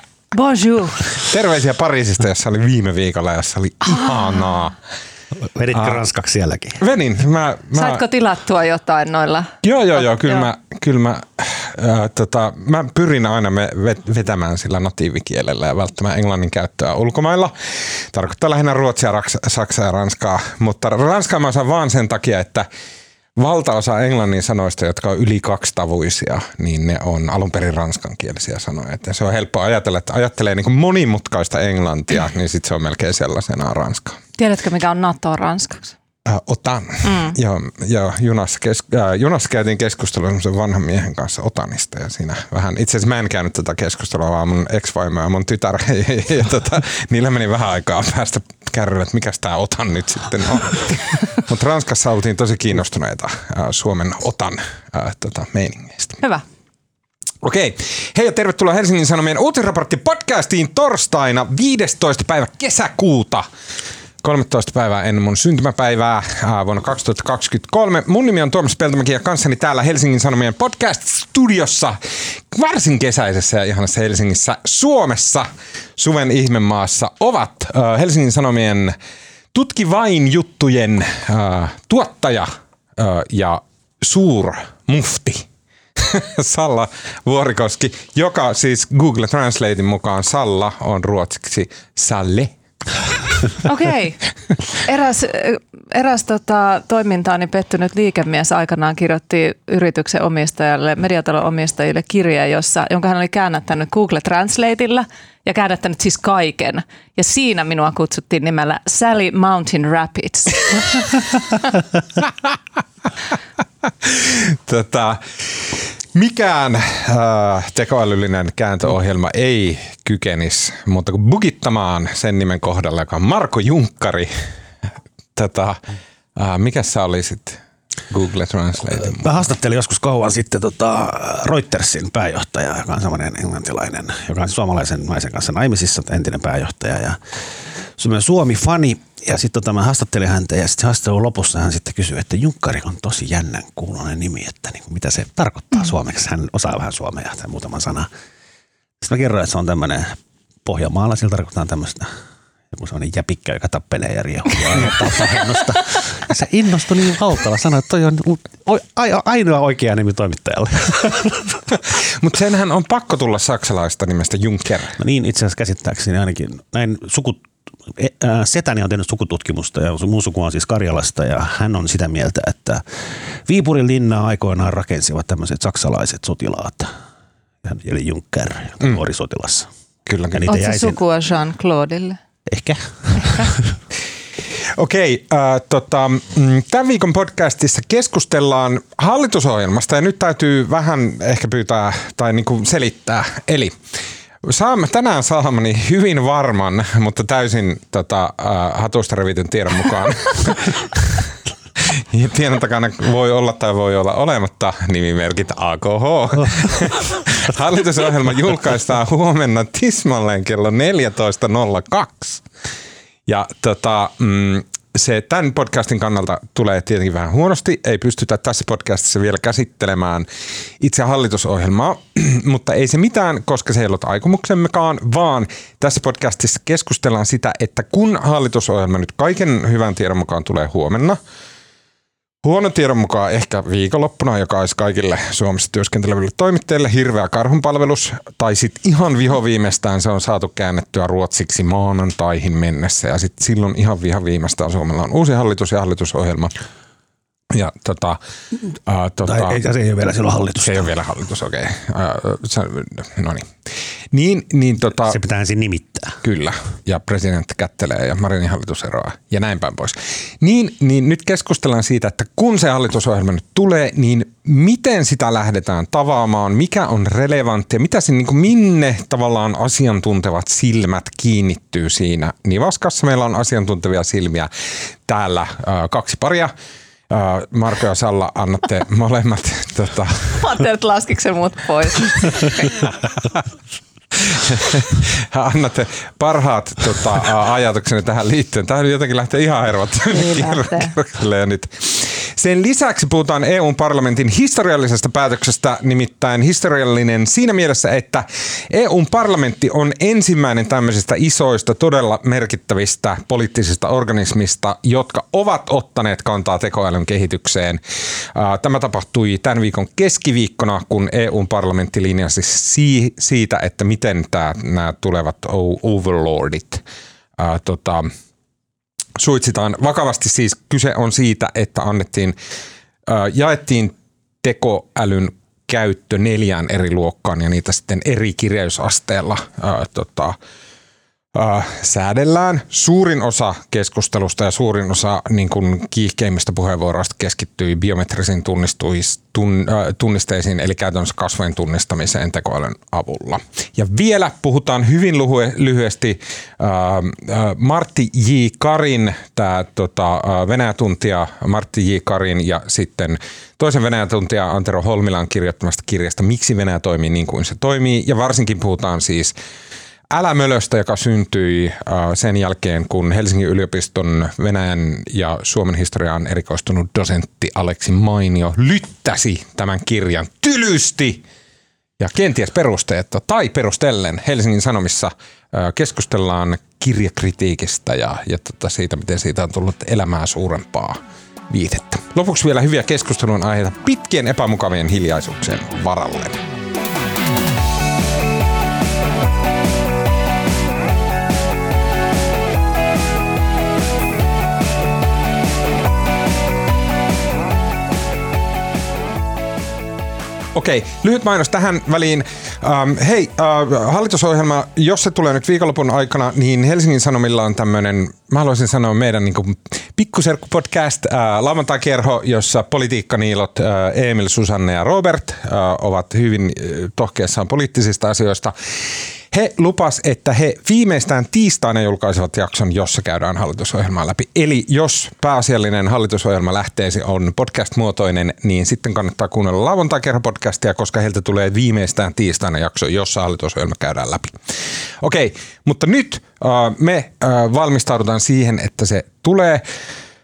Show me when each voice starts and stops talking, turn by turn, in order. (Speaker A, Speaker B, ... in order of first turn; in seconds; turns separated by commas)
Speaker A: 0.3-1.1, Speaker B: 1.2-4.8, Speaker C: 5.5-6.8, Speaker B: 5.7-6.0, Speaker B: 6.8-8.0, Speaker A: 7.7-9.6, Speaker B: 9.6-22.7, Speaker A: 10.2-10.5, Speaker B: 23.4-34.2, Speaker A: 34.4-36.0, Speaker B: 36.3-56.2, Speaker A: 37.0-37.4, Speaker B: 57.4-63.5, Speaker B: 64.2-72.0, Speaker B: 72.5-79.0, Speaker B: 79.5-85.5, Speaker B: 86.0-92.5, Speaker A: 93.7-94.2, Speaker A: 94.8-111.2, Speaker B: 114.0-124.3, Speaker B: 125.4-125.8, Speaker B: 126.4-129.3, Speaker C: 129.0-137.2, Speaker C: 138.0-148.1, Speaker C: 149.0-152.1, Speaker C: 152.7-161.6, Speaker B: 162.2-164.9, Speaker C: 165.0-172.8, Speaker C: 173.5-176.9, Speaker C: 177.6-179.7, Speaker B: 180.1-180.5, Speaker C: 180.3-181.0, Speaker A: 180.5-182.2, Speaker C: 182.5-183.7, Speaker A: 183.2-183.5, Speaker B: 184.7-193.8, Speaker B: 194.4-201.2, Speaker B: 202.1-212.4, Speaker B: 213.3-220.3, Speaker B: 220.8-231.2, Speaker B: 232.4-246.5, Speaker B: 247.5-248.2, Speaker B: 248.9-249.6, Speaker C: 249.3-250.9, Speaker B: 250.6-253.5, Speaker B: 254.1-255.2, Speaker C: 255.1-256.2, Speaker B: 256.2-274.5, Speaker B: 275.1-276.5, Speaker B: 277.1-280.4, Speaker A: 280.4-282.9, Speaker B: 284.3-307.8, Speaker A: 290.1-290.9, Speaker B: 308.4-316.8, Speaker B: 317.4-318.1, Speaker B: 319.2-322.4, Speaker B: 323.1-330.4, Speaker B: 331.3-359.4, Speaker B: 360.1-371.2, Speaker B: 372.0-381.0, Speaker B: 381.5-386.4, Speaker B: 400.6-434.4, Speaker B: 435.0-439.6